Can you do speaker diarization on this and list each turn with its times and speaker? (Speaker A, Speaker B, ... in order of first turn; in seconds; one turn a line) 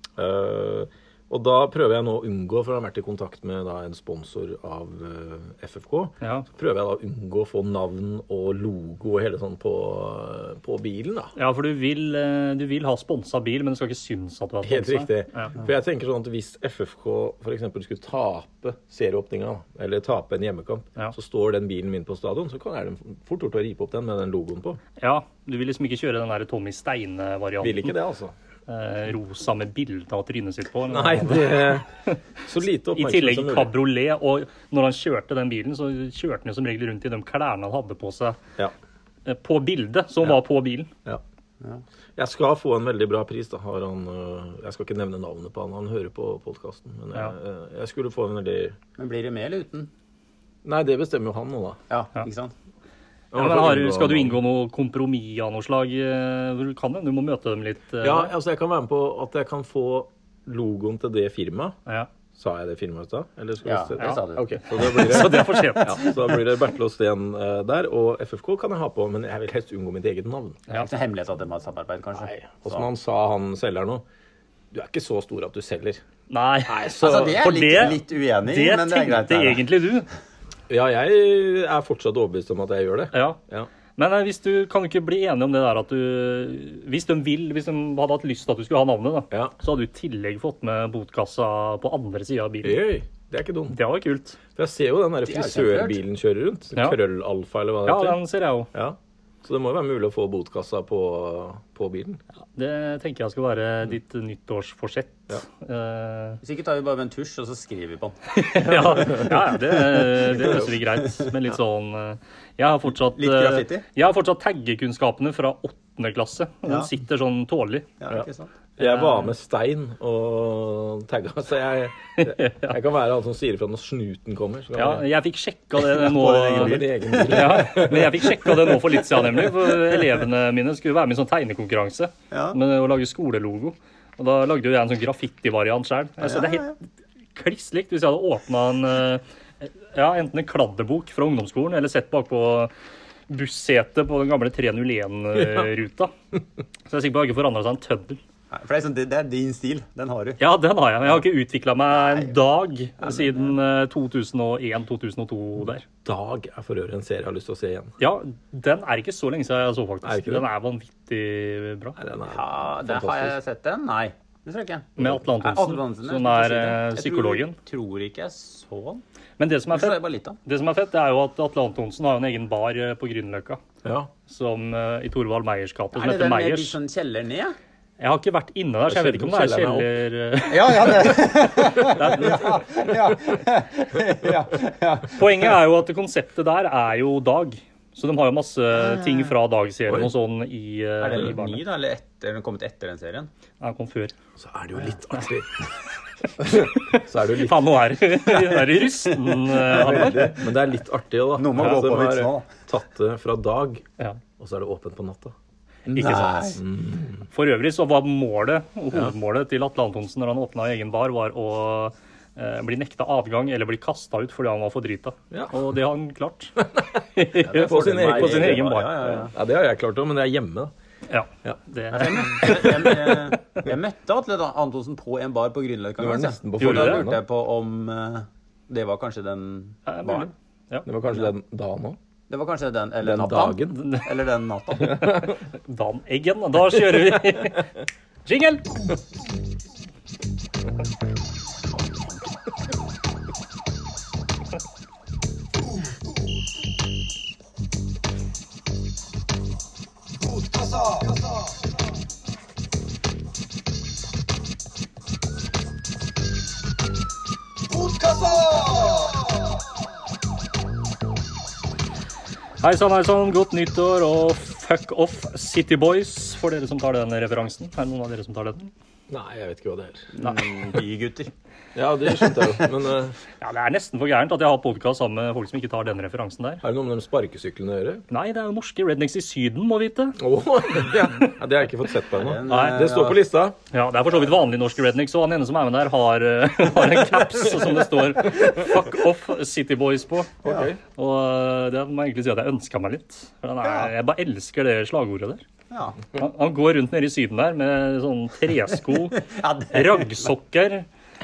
Speaker A: 0.2-11.3
Speaker B: 6.2-6.5
Speaker B: 11.4-15.5
Speaker A: 14.6-24.8
Speaker B: 25.0-27.9
Speaker A: 27.6-28.3
Speaker B: 28.7-32.2
Speaker A: 30.9-31.9
Speaker A: 32.4-33.7
Speaker B: 33.0-38.4
Speaker B: 39.3-40.9
Speaker A: 42.2-48.8
Speaker C: 49.0-49.9
Speaker A: 50.6-51.8
Speaker C: 51.9-52.5
Speaker A: 53.3-54.4
Speaker B: 53.4-58.3
Speaker A: 58.0-61.8
Speaker A: 62.4-70.6
Speaker C: 63.6-66.1
Speaker B: 64.7-66.1
Speaker C: 70.7-72.8
Speaker A: 72.2-74.0
Speaker A: 74.7-76.0
Speaker B: 76.3-80.1
Speaker A: 76.7-77.5
Speaker C: 77.0-79.6
Speaker A: 80.7-83.7
Speaker B: 83.1-83.4
Speaker B: 84.0-92.8
Speaker A: 92.6-93.8
Speaker B: 93.7-94.4
Speaker A: 94.5-98.2
Speaker C: 95.2-96.0
Speaker B: 97.9-98.7
Speaker A: 98.7-102.2
Speaker B: 102.5-106.4
Speaker C: 106.4-108.2
Speaker B: 108.3-117.9
Speaker A: 108.6-109.5
Speaker C: 109.8-111.3
Speaker A: 110.4-110.7
Speaker C: 113.1-113.8
Speaker C: 118.0-118.5
Speaker A: 118.8-125.0
Speaker B: 118.8-119.3
Speaker B: 122.2-122.8
Speaker B: 124.8-136.8
Speaker C: 125.8-127.7
Speaker A: 126.5-128.7
Speaker C: 128.4-130.2
Speaker C: 132.3-132.6
Speaker C: 136.2-136.7
Speaker B: 137.4-142.7
Speaker B: 143.3-146.1
Speaker A: 145.4-145.7
Speaker B: 146.9-148.2
Speaker C: 148.5-150.4
Speaker B: 150.4-155.9
Speaker C: 151.9-152.3
Speaker C: 153.0-153.5
Speaker A: 156.0-157.9
Speaker B: 158.0-162.0
Speaker A: 160.0-160.5
Speaker A: 162.0-163.3
Speaker C: 162.3-169.0
Speaker B: 165.0-167.6
Speaker B: 169.4-173.6
Speaker C: 169.7-170.4
Speaker A: 173.8-174.1
Speaker B: 174.3-176.8
Speaker C: 175.9-177.6
Speaker B: 178.0-182.5
Speaker A: 178.9-179.9
Speaker C: 180.5-185.5
Speaker A: 181.9-182.2
Speaker B: 185.2-191.6
Speaker C: 188.8-189.3
Speaker C: 191.0-193.3
Speaker B: 193.6-194.1
Speaker A: 194.4-195.5
Speaker A: 196.4-197.7
Speaker B: 196.6-200.4
Speaker C: 199.1-200.3
Speaker A: 199.7-203.8
Speaker C: 201.4-202.5
Speaker A: 204.4-205.3
Speaker C: 205.9-206.6
Speaker B: 205.9-206.6
Speaker A: 206.6-207.2
Speaker B: 207.3-218.9
Speaker A: 216.8-220.7
Speaker C: 217.4-219.3
Speaker B: 221.1-223.0
Speaker C: 221.9-230.3
Speaker A: 222.4-223.2
Speaker A: 226.0-227.2
Speaker B: 226.6-227.1
Speaker B: 229.9-230.9
Speaker A: 230.8-232.0
Speaker C: 232.3-235.2
Speaker A: 233.0-233.9
Speaker B: 233.8-234.1
Speaker A: 234.9-235.3
Speaker B: 235.7-237.7
Speaker B: 238.2-238.9
Speaker A: 250.6-251.2
Speaker A: 257.9-259.1
Speaker B: 262.6-268.7
Speaker A: 269.1-270.1
Speaker C: 270.1-271.3
Speaker B: 270.2-270.5
Speaker A: 271.8-273.2
Speaker B: 273.4-276.6
Speaker A: 276.6-278.0
Speaker B: 278.1-280.2
Speaker A: 280.2-283.6
Speaker B: 280.8-281.3
Speaker C: 282.1-283.2
Speaker B: 282.5-282.8
Speaker B: 283.7-295.4
Speaker A: 290.4-290.8
Speaker C: 290.4-290.7
Speaker C: 293.6-293.9
Speaker C: 295.7-296.0
Speaker B: 296.1-300.9
Speaker C: 299.1-300.3